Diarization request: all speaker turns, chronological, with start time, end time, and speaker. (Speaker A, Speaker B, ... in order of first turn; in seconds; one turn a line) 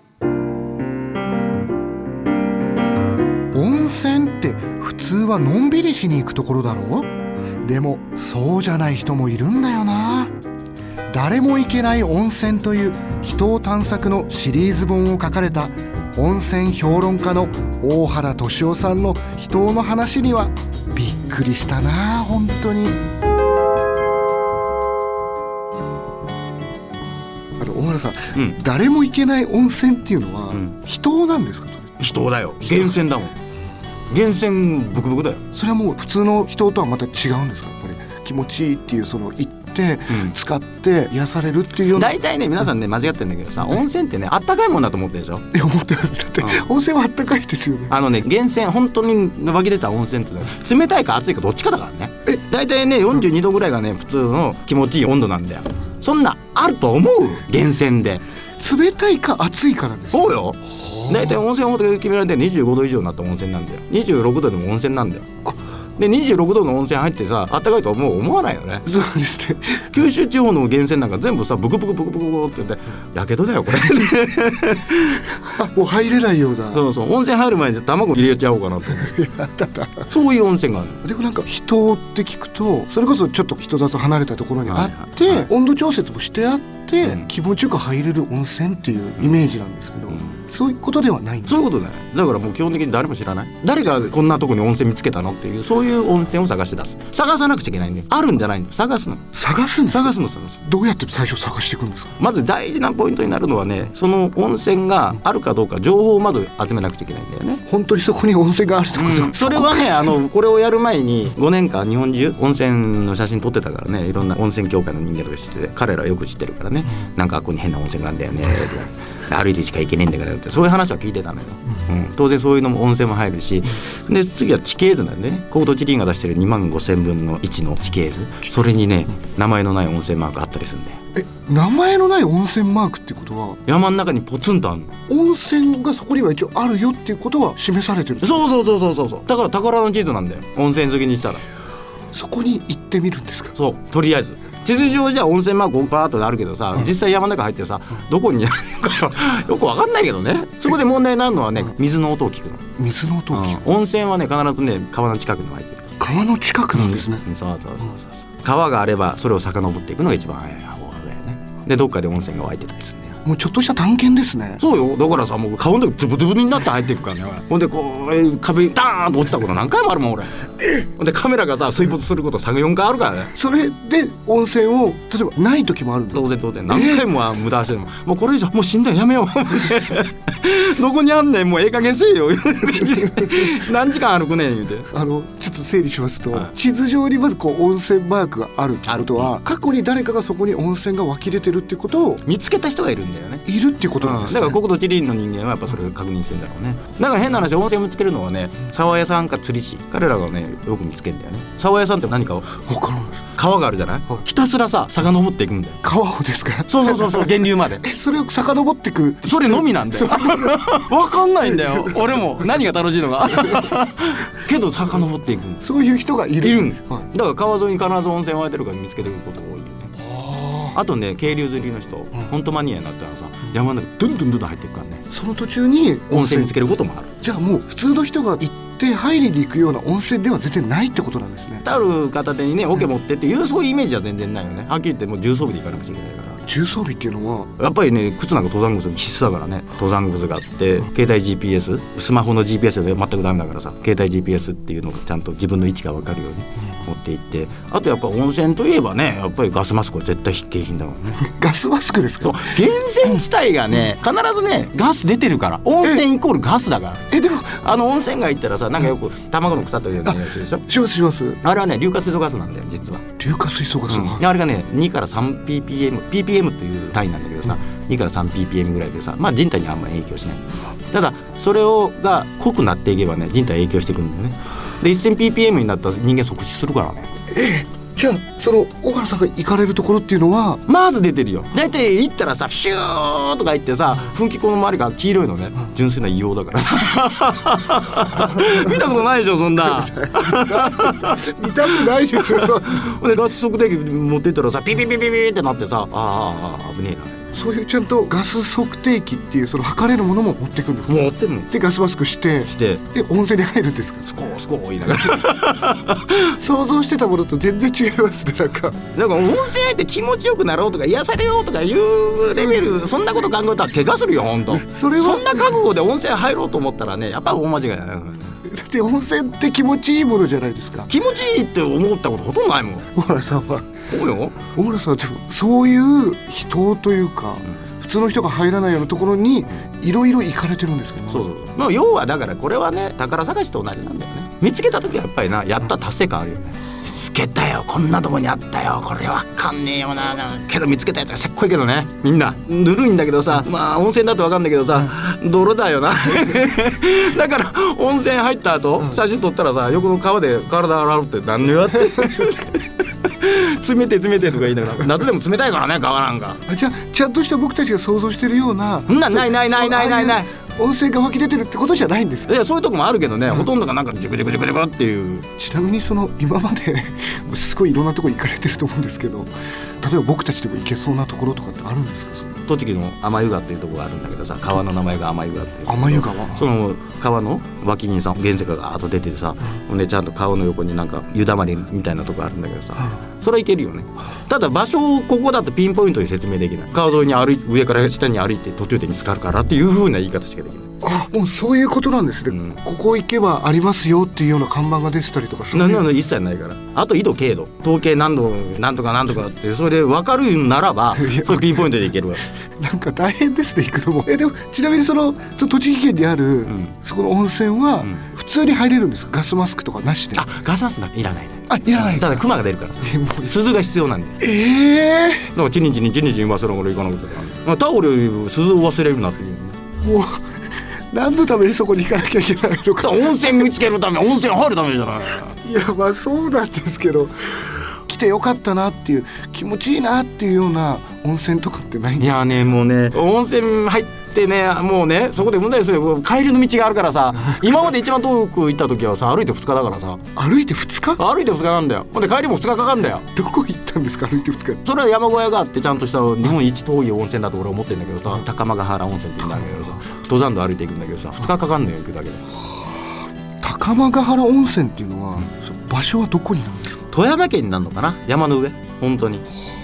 Speaker A: 3.5-7.1
Speaker A: 7.6-10.3
Speaker A: 11.1-23.0
Speaker A: 27.6-31.9
Speaker B: 32.0-33.3
Speaker A: 32.6-32.9
Speaker B: 34.1-35.4
Speaker A: 35.5-42.2
Speaker B: 40.1-40.4
Speaker B: 41.9-45.5
Speaker A: 45.5-48.0
Speaker B: 46.4-46.7
Speaker B: 47.9-58.2
Speaker A: 58.6-61.4
Speaker B: 60.1-65.3
Speaker B: 66.0-68.9
Speaker A: 68.8-69.9
Speaker B: 69.9-75.3
Speaker A: 75.5-76.8
Speaker B: 76.7-79.1
Speaker A: 78.9-80.1
Speaker B: 80.1-81.0
Speaker A: 81.0-91.6
Speaker B: 84.6-85.5
Speaker B: 89.2-89.5
Speaker B: 91.5-99.3
Speaker A: 99.3-100.1
Speaker B: 99.9-100.6
Speaker A: 100.6-102.1
Speaker B: 102.2-107.6
Speaker A: 107.7-110.1
Speaker B: 108.9-131.0
Speaker A: 131.2-133.6
Speaker B: 133.7-134.9
Speaker A: 135.1-138.5
Speaker B: 138.2-141.4
Speaker A: 142.1-143.6
Speaker B: 143.6-152.6
Speaker A: 152.8-153.6
Speaker B: 153.3-155.9
Speaker A: 156.0-157.2
Speaker B: 156.7-163.2
Speaker A: 163.2-164.6
Speaker B: 164.6-173.3
Speaker A: 173.3-177.1
Speaker B: 176.1-184.9
Speaker A: 184.9-192.2
Speaker B: 188.8-189.3
Speaker B: 192.2-193.4
Speaker A: 193.4-194.6
Speaker B: 194.0-202.5
Speaker A: 202.5-203.2
Speaker B: 203.3-205.8
Speaker A: 205.8-210.5
Speaker B: 206.7-207.8
Speaker B: 209.2-215.6
Speaker A: 211.5-212.2
Speaker A: 213.2-213.7
Speaker A: 215.6-217.1
Speaker B: 216.4-219.9
Speaker A: 220.0-220.8
Speaker B: 220.7-225.1
Speaker A: 225.1-226.6
Speaker B: 226.1-227.1
Speaker A: 227.2-231.6
Speaker B: 231.6-236.4
Speaker A: 236.4-237.5
Speaker B: 237.6-251.3
Speaker A: 251.2-253.2
Speaker B: 252.2-260.6
Speaker A: 257.1-257.6
Speaker A: 260.0-261.4
Speaker B: 261.4-263.1
Speaker A: 263.2-264.2
Speaker B: 263.9-277.1
Speaker A: 277.3-280.6
Speaker B: 280.7-297.3
Speaker A: 288.2-288.9
Speaker A: 289.6-292.9
Speaker A: 297.3-304.1
Speaker B: 300.9-301.5
Speaker B: 302.4-302.8
Speaker B: 304.1-306.3
Speaker A: 304.9-305.2
Speaker A: 306.2-308.8
Speaker B: 308.9-318.3
Speaker A: 312.4-313.0
Speaker A: 314.5-315.6
Speaker A: 318.4-320.9
Speaker B: 320.9-322.9
Speaker A: 322.9-323.7
Speaker B: 323.9-324.4
Speaker A: 324.4-331.3
Speaker B: 331.1-356.4
Speaker A: 351.7-352.3
Speaker A: 356.5-362.4
Speaker B: 358.9-360.3
Speaker B: 362.3-365.3
Speaker A: 365.4-369.3
Speaker A: 369.8-372.4
Speaker B: 372.5-390.7
Speaker A: 375.6-376.4
Speaker A: 390.8-395.9
Speaker B: 392.3-392.6
Speaker B: 395.5-402.2
Speaker A: 400.9-401.7
Speaker A: 402.6-410.2
Speaker B: 406.5-406.7
Speaker B: 410.1-414.2
Speaker A: 411.5-412.2
Speaker A: 412.8-413.4
Speaker A: 414.2-415.3
Speaker B: 415.3-419.6
Speaker A: 419.8-420.2
Speaker A: 420.9-423.5
Speaker B: 422.8-425.4
Speaker A: 425.4-432.2
Speaker B: 432.0-440.0
Speaker A: 440.1-441.0
Speaker B: 441.0-443.0
Speaker A: 443.1-444.6
Speaker B: 444.6-452.2
Speaker A: 453.4-456.7
Speaker B: 456.9-459.2